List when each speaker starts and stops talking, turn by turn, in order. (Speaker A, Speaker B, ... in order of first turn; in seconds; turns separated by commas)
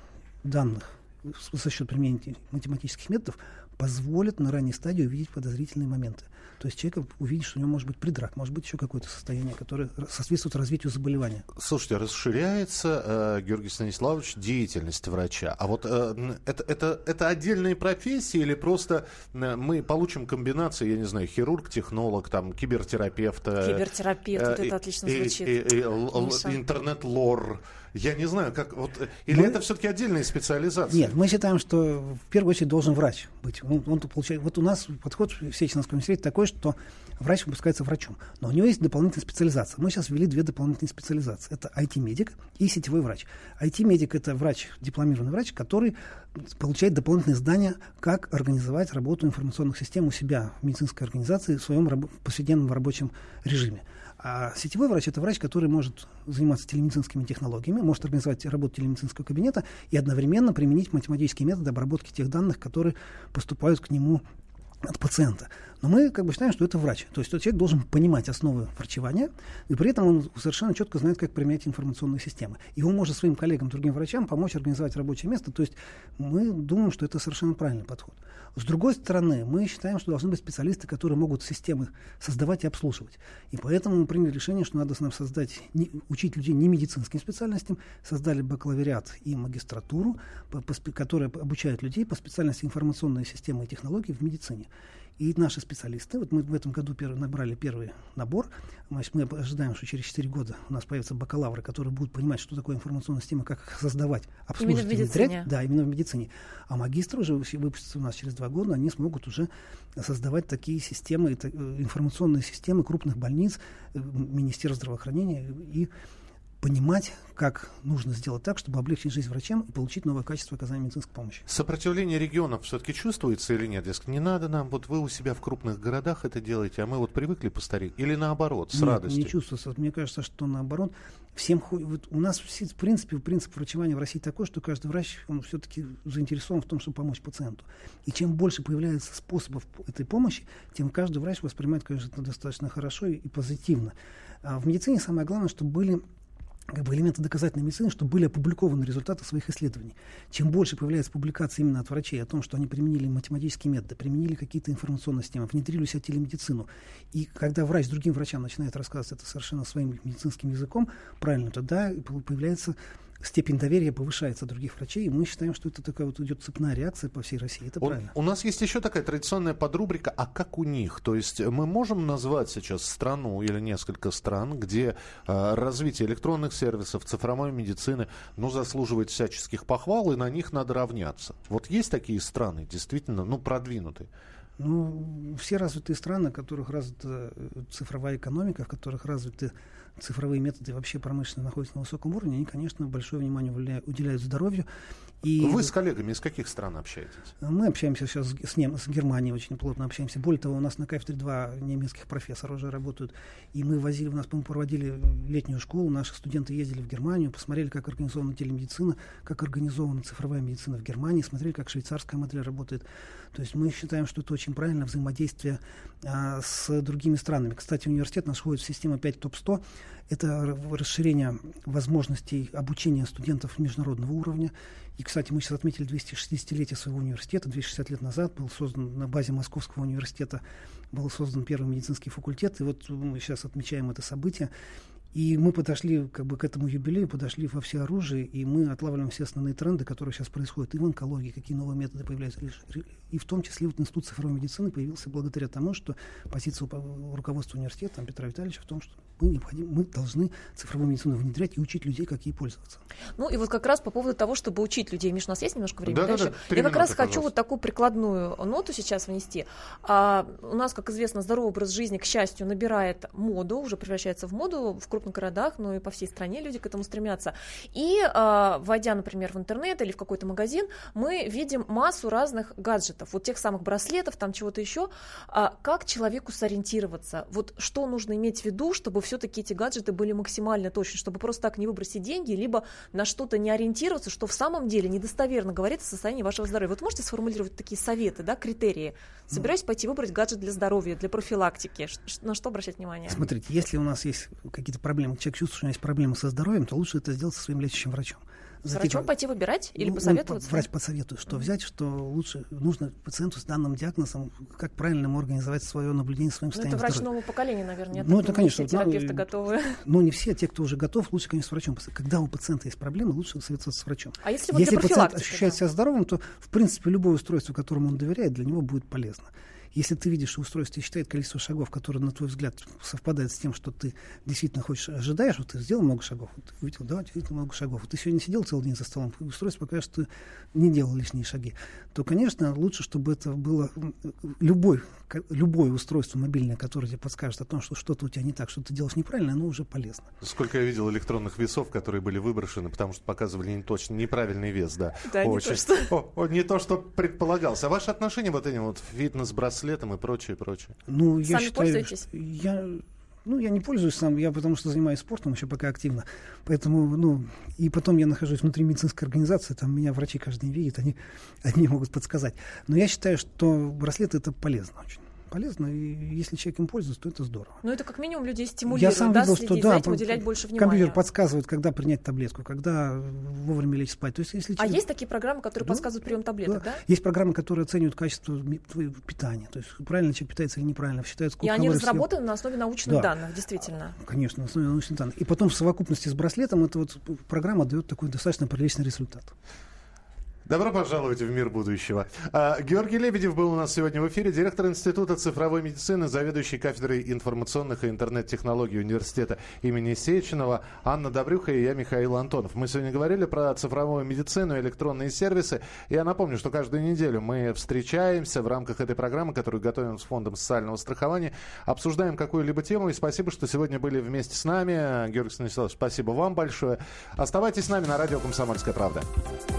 Speaker A: 0.4-11.4, Speaker B: 11.6-31.1, Speaker C: 23.6-26.6, Speaker A: 29.3-29.6, Speaker A: 30.9-64.2, Speaker A: 64.8-115.9, Speaker C: 104.6-105.5, Speaker A: 116.6-121.5, Speaker B: 121.5-129.3, Speaker A: 128.7-146.0, Speaker A: 146.7-168.1, Speaker B: 167.8-184.1, Speaker A: 184.6-194.7, Speaker A: 195.2-195.7, Speaker B: 195.4-197.3, Speaker A: 197.4-234.5, Speaker A: 235.1-252.8, Speaker C: 253.2-293.2, Speaker B: 255.8-257.3, Speaker A: 293.1-299.1, Speaker C: 298.6-300.7, Speaker A: 299.8-307.1, Speaker C: 306.5-309.8, Speaker A: 307.9-340.1, Speaker C: 314.2-315.6, Speaker B: 340.2-350.7, Speaker C: 345.1-345.9, Speaker A: 350.9-367.6, Speaker C: 351.2-352.0, Speaker C: 367.6-371.0, Speaker A: 368.7-374.8, Speaker C: 374.6-376.8, Speaker A: 375.6-375.9, Speaker A: 376.4-382.1, Speaker C: 381.4-383.9, Speaker A: 382.9-383.1, Speaker A: 384.0-389.3, Speaker B: 390.4-419.1